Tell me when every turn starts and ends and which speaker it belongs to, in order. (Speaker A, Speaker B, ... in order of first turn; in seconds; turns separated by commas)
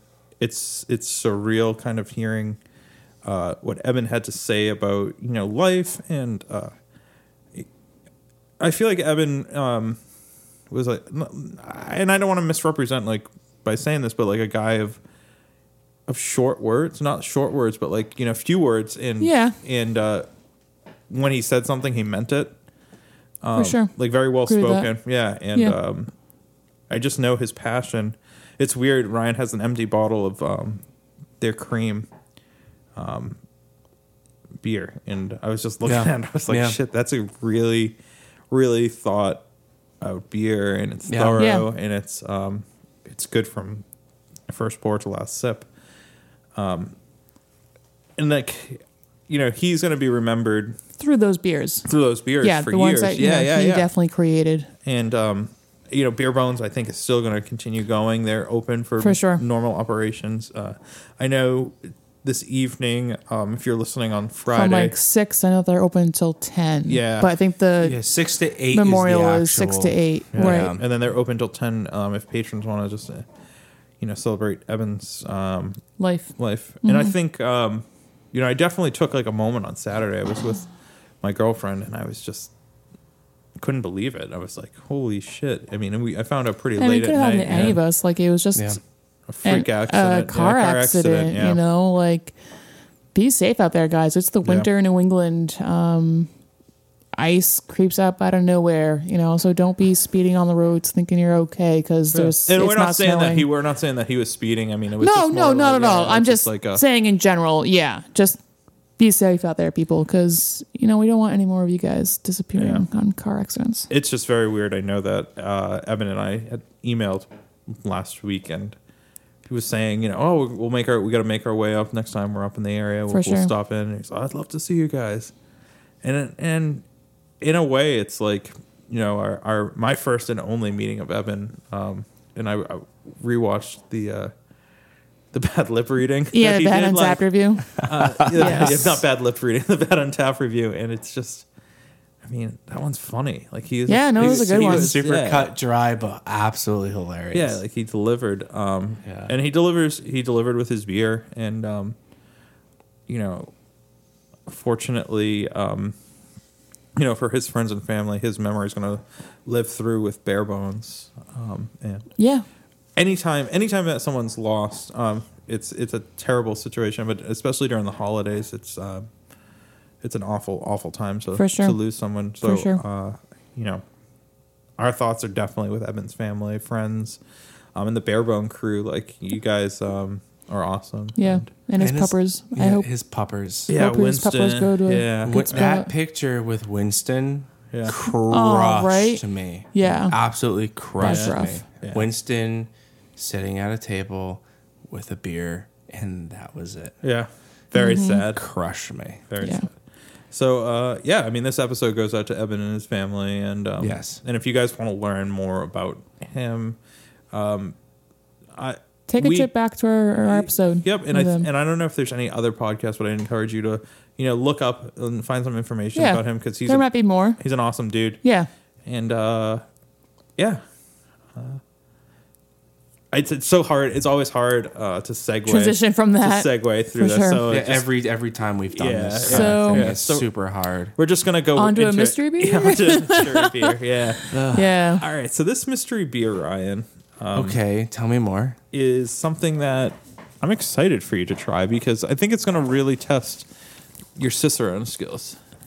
Speaker A: 0.4-2.6, Speaker A: 3.2-6.7, Speaker A: 8.6-10.0, Speaker A: 10.7-15.0, Speaker A: 16.1-20.3, Speaker B: 19.2-19.6, Speaker A: 21.1-22.5, Speaker A: 23.4-26.1, Speaker B: 23.5-23.9, Speaker B: 24.5-24.9, Speaker A: 26.9-30.8, Speaker A: 31.4-32.1, Speaker A: 33.0-33.4, Speaker A: 34.6-38.0, Speaker C: 35.8-36.8, Speaker A: 38.5-39.4, Speaker A: 40.0-43.8, Speaker C: 41.1-41.4, Speaker B: 41.4-41.6, Speaker A: 44.5-45.7, Speaker A: 46.5-46.9, Speaker A: 48.2-50.8, Speaker B: 51.0-51.9, Speaker A: 51.9-53.9, Speaker B: 52.4-54.7, Speaker A: 54.9-64.9, Speaker B: 59.0-59.4, Speaker B: 64.5-68.0, Speaker A: 66.9-67.3, Speaker C: 67.8-70.8, Speaker B: 68.7-70.7, Speaker A: 70.3-73.2, Speaker A: 74.0-80.7, Speaker B: 76.0-76.3, Speaker B: 76.8-77.1, Speaker A: 81.2-82.5, Speaker A: 83.6-87.8, Speaker B: 86.8-88.8, Speaker A: 89.3-91.6, Speaker B: 89.4-92.3, Speaker B: 93.1-96.3, Speaker B: 97.1-103.5, Speaker A: 102.1-106.8, Speaker B: 105.0-108.4, Speaker B: 109.0-113.9, Speaker A: 112.6-112.8, Speaker A: 113.9-118.8, Speaker A: 119.5-125.3, Speaker B: 123.1-123.5, Speaker A: 126.0-126.8, Speaker A: 127.4-134.3, Speaker A: 135.3-141.4, Speaker B: 136.3-137.8, Speaker C: 137.9-138.8, Speaker B: 138.3-139.0, Speaker A: 142.2-145.5, Speaker B: 143.9-144.9, Speaker C: 144.2-147.6, Speaker A: 147.3-151.9, Speaker C: 149.0-149.3, Speaker A: 153.1-153.5, Speaker A: 154.5-155.9, Speaker A: 156.9-162.1, Speaker B: 162.2-162.4, Speaker A: 162.9-169.1, Speaker A: 170.0-173.8, Speaker B: 171.3-171.8, Speaker B: 172.4-172.8, Speaker A: 174.8-177.2, Speaker A: 177.7-181.5, Speaker B: 181.2-182.8, Speaker C: 181.8-183.7, Speaker A: 183.7-185.7, Speaker B: 183.7-185.9, Speaker C: 185.2-196.9, Speaker B: 188.2-190.2, Speaker B: 191.0-191.6, Speaker A: 191.0-192.1, Speaker A: 197.0-198.4, Speaker B: 197.7-198.2, Speaker C: 198.3-199.2, Speaker A: 199.3-199.7, Speaker B: 199.4-199.7, Speaker A: 200.3-206.8, Speaker C: 203.8-204.2, Speaker A: 207.3-207.7, Speaker A: 208.6-209.5, Speaker B: 209.1-211.5, Speaker A: 210.2-216.9, Speaker B: 215.9-217.4, Speaker A: 217.4-218.2, Speaker B: 218.2-218.5, Speaker A: 218.8-219.6, Speaker A: 220.4-220.6, Speaker A: 221.3-221.6, Speaker A: 223.1-227.9, Speaker B: 225.4-227.4, Speaker C: 227.5-230.9, Speaker A: 228.7-230.3, Speaker B: 229.3-229.8, Speaker A: 230.9-234.4, Speaker B: 231.6-233.7, Speaker C: 234.3-234.7, Speaker B: 234.5-235.0, Speaker A: 235.0-237.6, Speaker C: 237.3-238.6, Speaker A: 238.7-243.5, Speaker A: 244.2-245.4